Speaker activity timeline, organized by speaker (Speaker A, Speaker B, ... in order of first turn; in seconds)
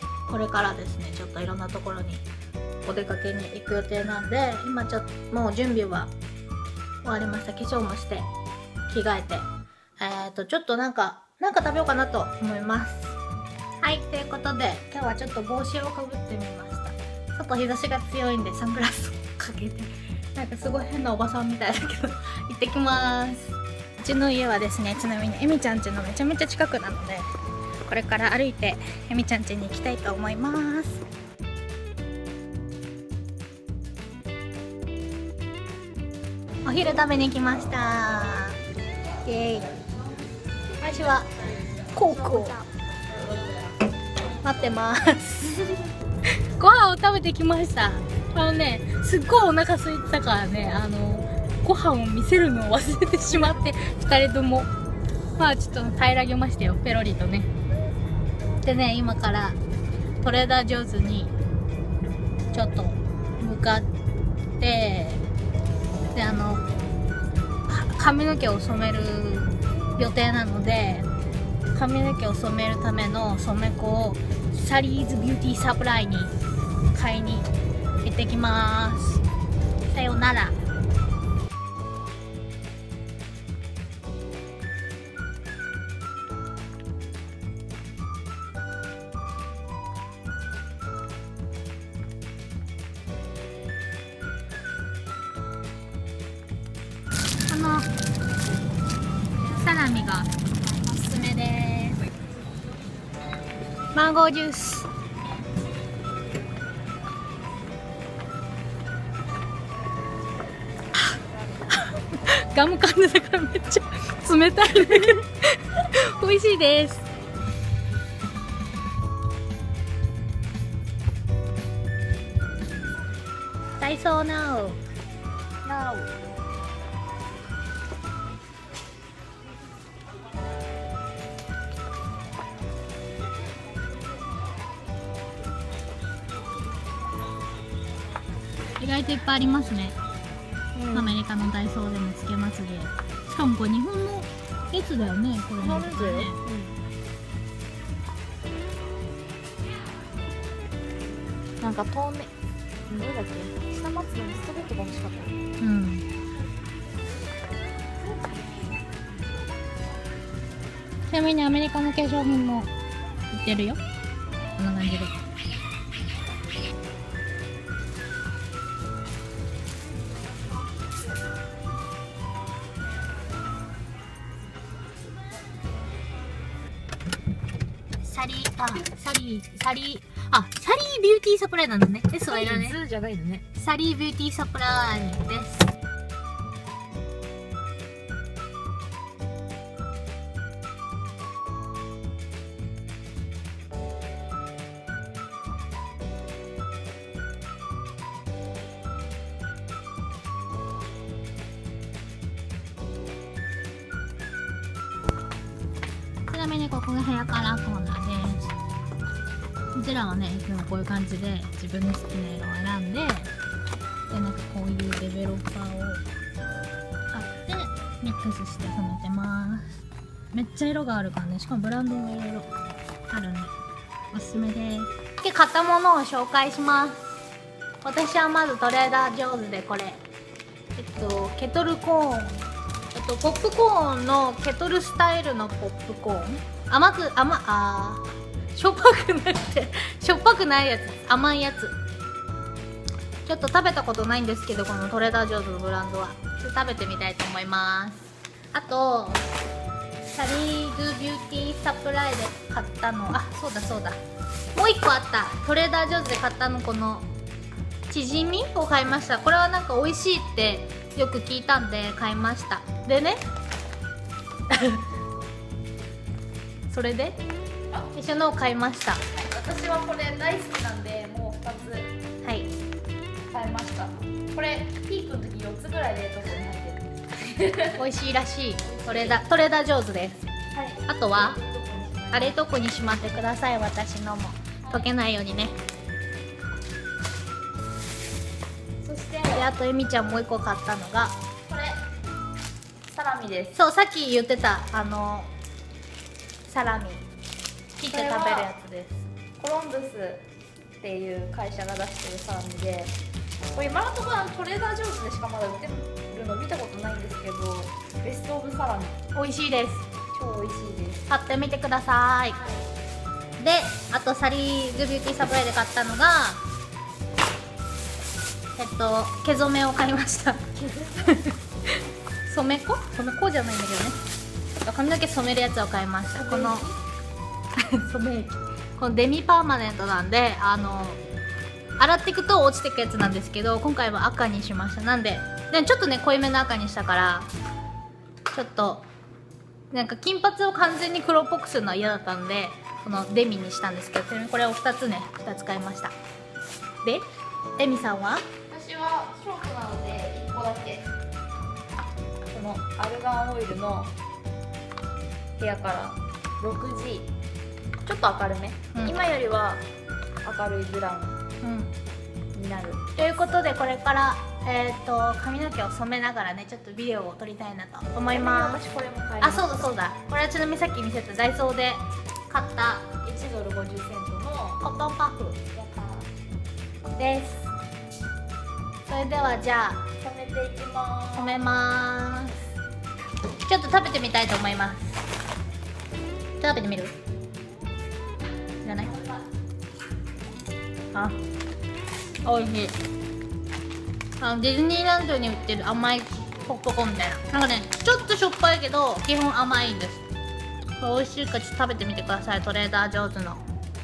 Speaker A: 0.3-2.2, 2.8-6.1, 7.0-8.3, 8.9-9.5, 10.0-13.2, 13.8-27.3, 27.9-31.0, 36.6-38.6, 39.2-39.7, 40.8-41.3, 41.9-42.6, 44.4-45.7, 46.4-54.7, 55.4-57.5, 58.6-59.6, 60.2-61.3, 62.5-63.9, 64.6-65.2, 66.1-66.6, 67.7-71.1, 71.7-76.3, 76.9-77.5, 78.0-79.2, 79.9-80.6, 97.5-97.9, 99.5-102.0, 103.9-104.9, 111.7-117.0, 123.8-124.8, 138.8-139.9, 140.9-146.4, 155.6-156.0, 161.1-162.7, 163.3-163.8, 164.6-165.1, 178.0-182.8, 183.5-185.7, 206.3-208.6, 209.7-213.3, 214.1-216.0, 217.1-222.5, 223.1-223.5, 224.1-227.1, 227.8-230.0, 230.7-241.8, 243.2-249.3, 250.1-254.0, 254.5-257.1, 257.9-263.2, 264.5-264.8, 266.7-267.2, 267.9-269.0, 272.2-272.5, 277.8-280.3, 280.9-281.4, 282.1-285.6, 289.3-291.1, 293.5-295.3, 296.4-297.1, 297.8-299.1, 309.1-309.9, 311.1-312.4, 313.4-316.4, 318.6-320.5, 321.0-321.4, 322.2-324.0, 324.6-326.7, 327.6-331.0, 331.8-337.3, 338.3-338.9, 339.7-345.9, 346.8-348.2, 358.7-359.1, 361.4-361.7, 362.9-368.6, 369.2-372.9, 374.6-375.4, 377.0-377.5, 378.9-379.9, 381.1-382.4, 383.4-385.1, 386.4-386.9, 388.6-388.9, 390.9-391.2, 392.2-392.7, 394.2-400.0, 400.8-403.4
Speaker B: 125.6-126.2, 140.7-141.2, 145.6-146.8, 151.6-152.3, 152.9-155.3, 182.3-183.4, 269.0-271.9, 273.3-277.8, 278.6-279.3, 280.5-283.1, 284.6-284.9, 288.8-289.5, 291.5-291.8, 292.9-293.6, 297.9-298.5, 299.4-300.2, 300.8-303.0, 303.5-309.0, 310.1-311.1, 312.3-312.7, 320.5-321.2, 326.1-326.8, 348.5-350.9, 352.3-353.9, 355.4-357.1, 357.8-359.6, 360.2-361.2, 362.3-363.0, 368.1-369.5, 373.0-374.6, 375.5-376.1, 380.0-381.5, 388.8-389.2